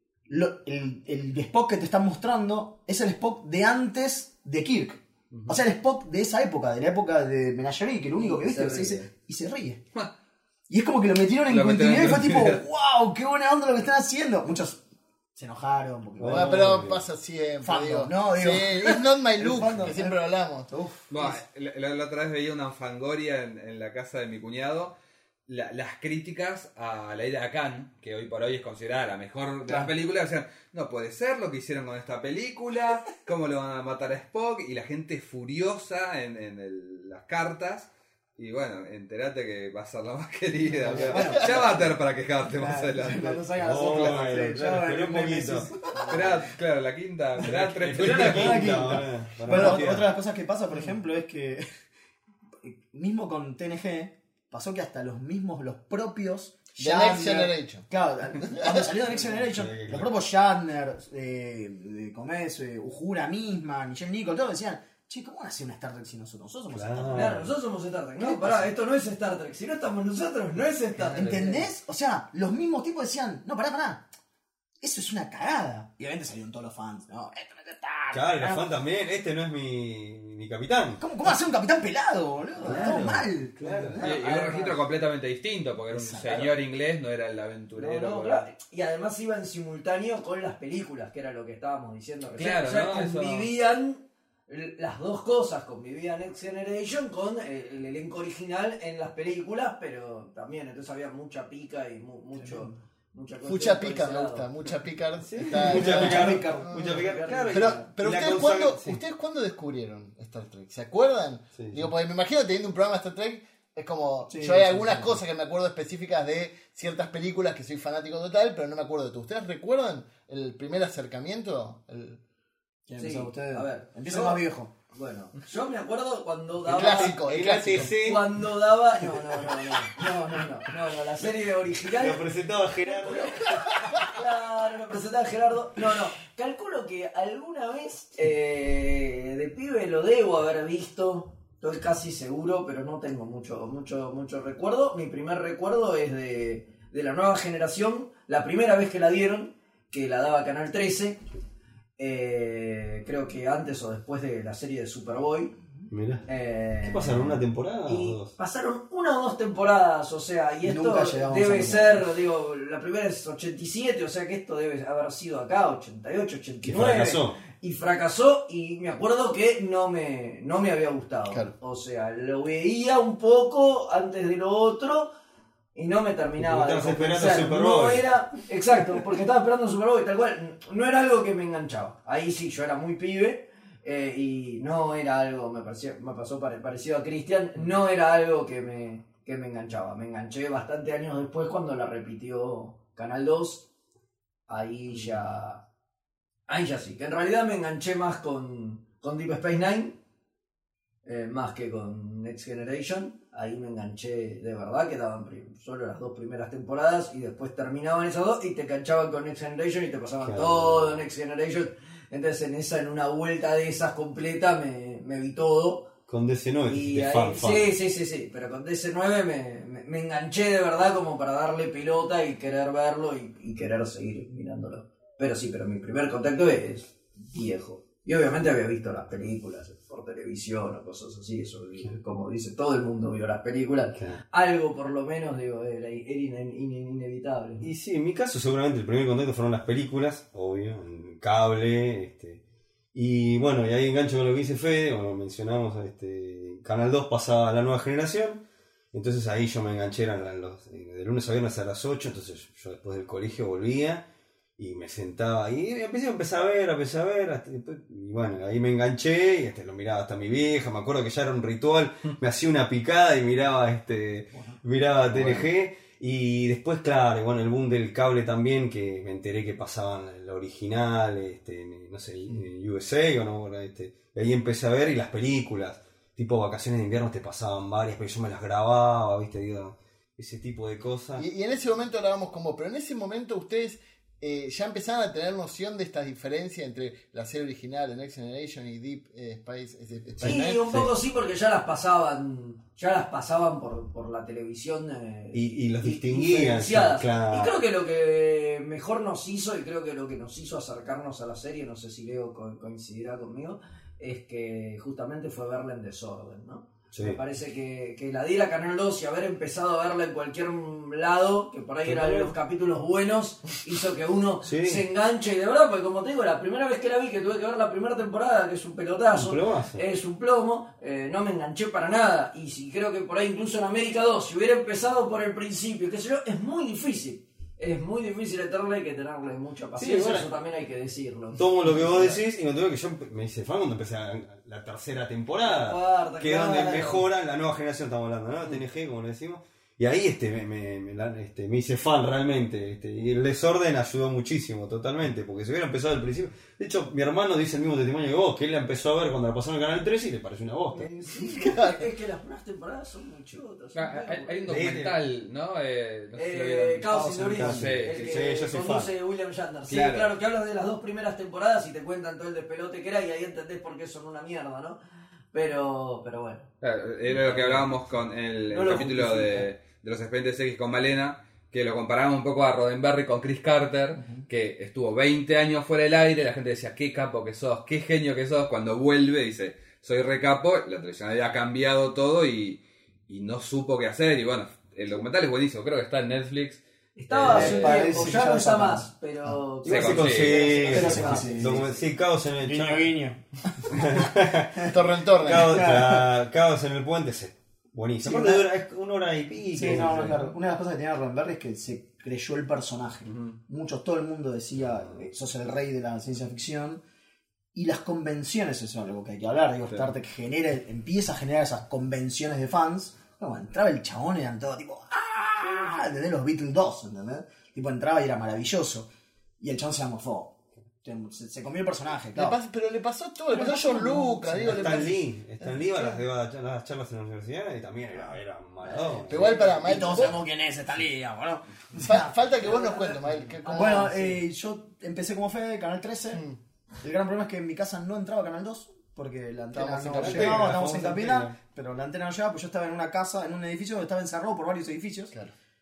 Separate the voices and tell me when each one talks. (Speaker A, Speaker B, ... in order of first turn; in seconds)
Speaker A: 0.3-9.8, 10.7-14.8, 15.3-16.7, 17.6-21.4, 40.8-41.9, 42.5-46.5, 47.4-51.6, 52.6-67.4, 68.2-68.7, 71.0-74.1, 74.8-78.7, 81.0-84.7, 85.9-86.5, 102.4-102.8, 105.5-106.7, 114.3-115.2, 122.9-124.7, 160.6-162.0, 264.3-264.6, 356.9-357.7, 373.9-374.2, 387.2-389.3, 390.6-391.8, 392.4-394.7, 395.3-396.1, 398.0-398.5, 399.5-406.8, 407.5-418.9, 419.4-422.4, 423.3-424.9, 428.7-432.6, 433.4-436.2, 436.8-445.1
Speaker B: 5.3-5.6, 11.5-12.6, 21.1-24.9, 25.5-44.4, 46.1-49.0, 84.0-88.5, 92.4-93.5, 353.7-358.2, 359.7-360.1, 366.6-388.1, 389.6-390.9
Speaker C: 8.1-9.1, 67.1-71.7, 82.6-83.2, 83.9-84.7, 87.8-104.5, 105.8-107.9, 123.0-127.2, 127.8-132.3, 132.9-151.2, 152.0-155.5, 156.3-175.1, 175.7-193.7, 194.5-195.6, 196.5-200.0, 201.0-215.9, 216.7-237.7, 290.2-332.2, 335.4-337.0, 350.7-354.4, 356.1-364.8, 365.3-366.5, 368.5-369.5, 386.9-391.6, 432.4-434.2
Speaker D: 16.2-17.0, 43.5-45.7, 47.4-50.1, 59.0-60.1, 66.7-67.5, 78.1-81.0, 82.6-84.0, 105.2-109.0, 111.5-111.9, 126.7-128.4, 131.9-133.7, 155.9-156.2, 156.8-158.3, 166.6-167.4, 176.4-178.0, 210.2-211.1, 216.1-217.7, 237.6-242.4, 242.9-248.4, 248.9-254.0, 254.6-281.2, 290.2-290.9, 295.3-297.6, 306.9-307.2, 311.8-312.3, 314.4-314.8, 319.1-319.8, 329.8-330.3, 331.3-350.9, 354.5-355.0, 357.3-358.9, 387.3-388.2, 389.6-393.0, 393.7-400.3, 404.6-405.0, 424.4-430.1, 439.9-441.4
Speaker E: 16.2-20.7, 41.1-41.5, 56.8-57.9, 58.4-58.9, 103.4-122.2, 126.7-127.9, 281.1-290.7, 351.4-351.8, 394.6-395.8, 422.1-426.0, 429.0-430.2, 431.7-434.1, 436.1-436.4, 439.5-440.6